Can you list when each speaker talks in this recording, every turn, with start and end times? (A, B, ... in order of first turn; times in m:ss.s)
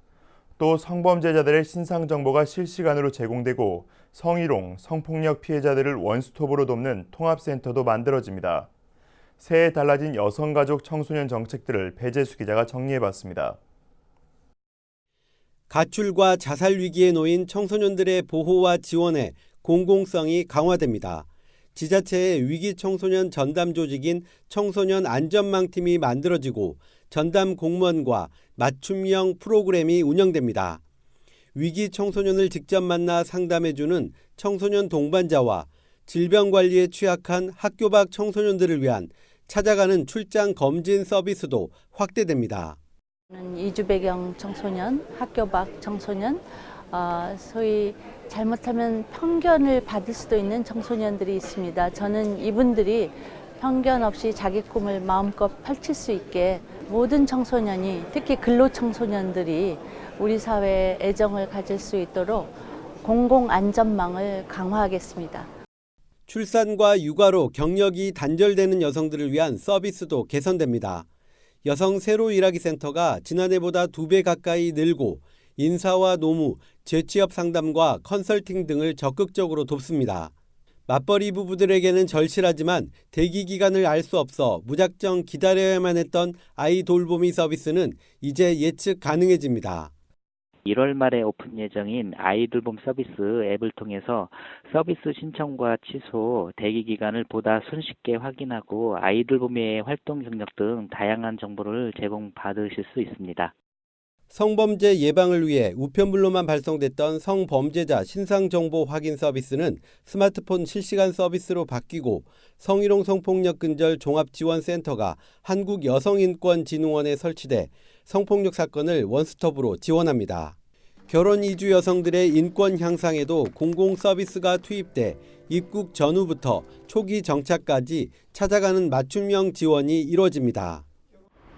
0:00.6-0:08.7 A
0:09.4-0:13.6 A
0:15.7-0:30.8 B
0:31.6-0:42.8 B
0:43.3-1:05.5 C
1:06.3-1:11.1 B
1:11.6-1:20.3 B
1:20.9-1:29.9 B
1:30.7-1:43.5 D
1:44.3-2:00.6 B
2:01.1-2:10.8 B